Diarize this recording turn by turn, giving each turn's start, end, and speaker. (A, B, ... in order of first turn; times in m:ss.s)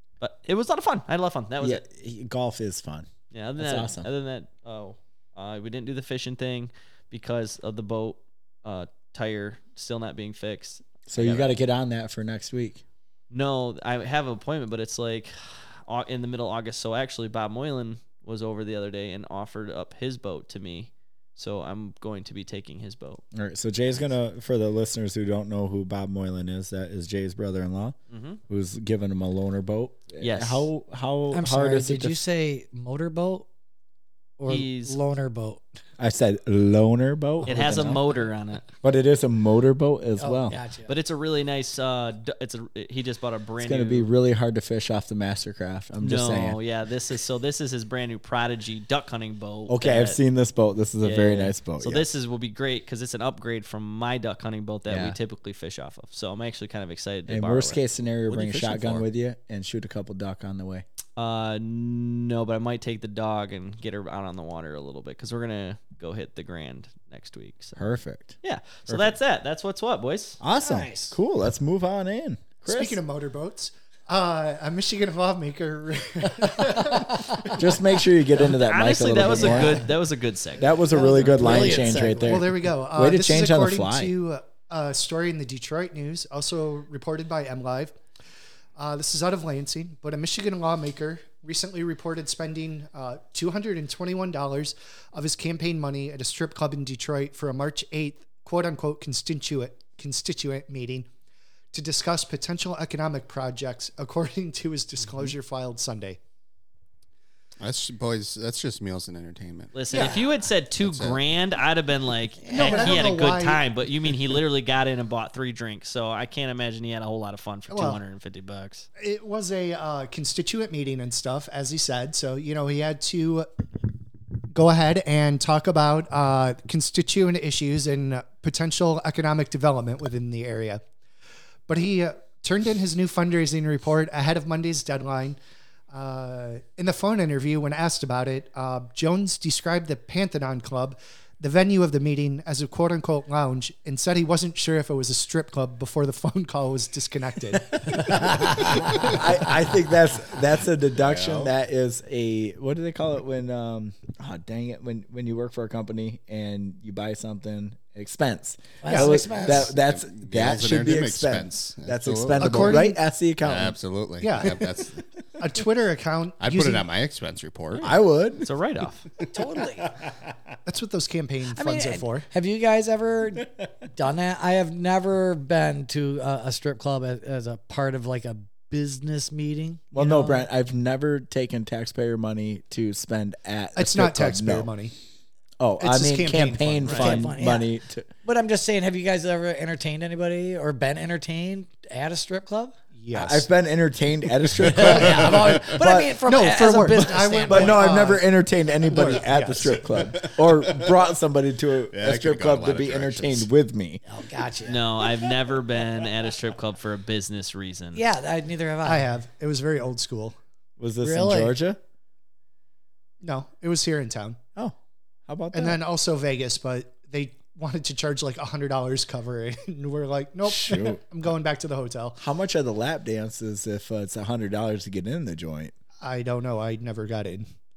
0:00.2-0:01.8 A
0:01.6-0:04.1 B
0:03.3-0:11.5 A
0:11.1-0:12.8 B
0:13.3-0:23.2 A
0:23.3-0:28.0 B
0:28.1-0:28.4 A
0:28.5-0:32.2 B
0:30.2-0:30.7 A
0:31.3-0:33.5 C
0:34.4-0:35.6 C
0:34.5-0:35.0 A
0:36.0-0:38.0 B
0:37.4-0:38.0 C
0:37.4-0:38.7 A
0:38.8-0:40.6 B
0:40.2-0:40.9 C
0:40.9-0:44.1 A
0:43.6-0:46.6 B
0:46.0-0:50.2 A
0:49.7-0:52.1 B
0:51.0-0:57.8 A
0:54.9-0:55.2 B
0:57.3-1:00.8 B
0:58.3-0:59.0 D
1:01.2-1:07.8 A
1:07.8-1:08.4 B
1:08.4-1:10.4 A
1:08.9-1:09.2 B
1:10.4-1:13.0 B
1:10.6-1:11.2 C
1:12.6-1:17.8 E
1:17.1-1:17.6 C
1:17.6-1:19.9 B
1:18.4-1:20.8 A
1:20.6-1:24.1 B
1:20.9-1:22.4 C
1:20.9-1:28.0 E
1:28.8-1:41.1 E
1:41.7-1:46.2 E
1:47.6-1:50.2 D
1:49.8-1:58.9 A
1:49.9-1:50.3 C
1:50.8-1:51.2 D
1:52.4-1:53.0 C
1:52.5-1:53.6 E
1:57.7-1:58.0 E
1:59.0-2:03.5 E
2:04.5-2:10.8 E
2:11.7-2:15.4 E
2:15.9-2:29.4 E
2:27.7-2:43.8 B
2:28.9-2:29.2 D
2:31.0-2:31.5 D
2:38.8-2:39.7 C
2:38.9-2:39.2 E
2:39.4-2:42.8 D
2:42.4-2:43.0 E
2:43.4-2:45.0 D
2:44.2-2:44.7 E
2:45.4-2:46.9 E
2:46.4-2:48.0 D
2:47.7-2:49.1 A
2:47.8-2:48.5 B
2:49.3-2:49.9 C
2:50.7-2:52.3 E
2:51.6-3:00.4 C
2:59.9-3:04.7 B
3:03.8-3:04.9 E
3:05.6-3:08.1 B
3:05.8-3:07.3 E
3:06.8-3:07.2 A
3:06.9-3:07.7 C
3:08.2-3:12.8 C
3:13.0-3:13.5 E
3:13.1-3:16.2 B
3:14.6-3:18.1 C
3:15.1-3:15.8 D
3:16.2-3:20.2 E
3:17.0-3:24.0 B
3:20.2-3:20.9 D
3:21.9-3:23.5 D
3:24.1-3:24.8 C
3:24.6-3:28.0 A
3:28.0-3:29.1 C
3:28.8-3:30.4 E
3:30.8-3:31.8 B
3:31.0-3:31.6 C
3:33.2-3:34.4 E
3:35.3-3:35.8 B
3:35.5-3:42.2 E
3:40.4-3:41.0 B
3:42.2-3:45.7 B
3:46.0-3:47.5 E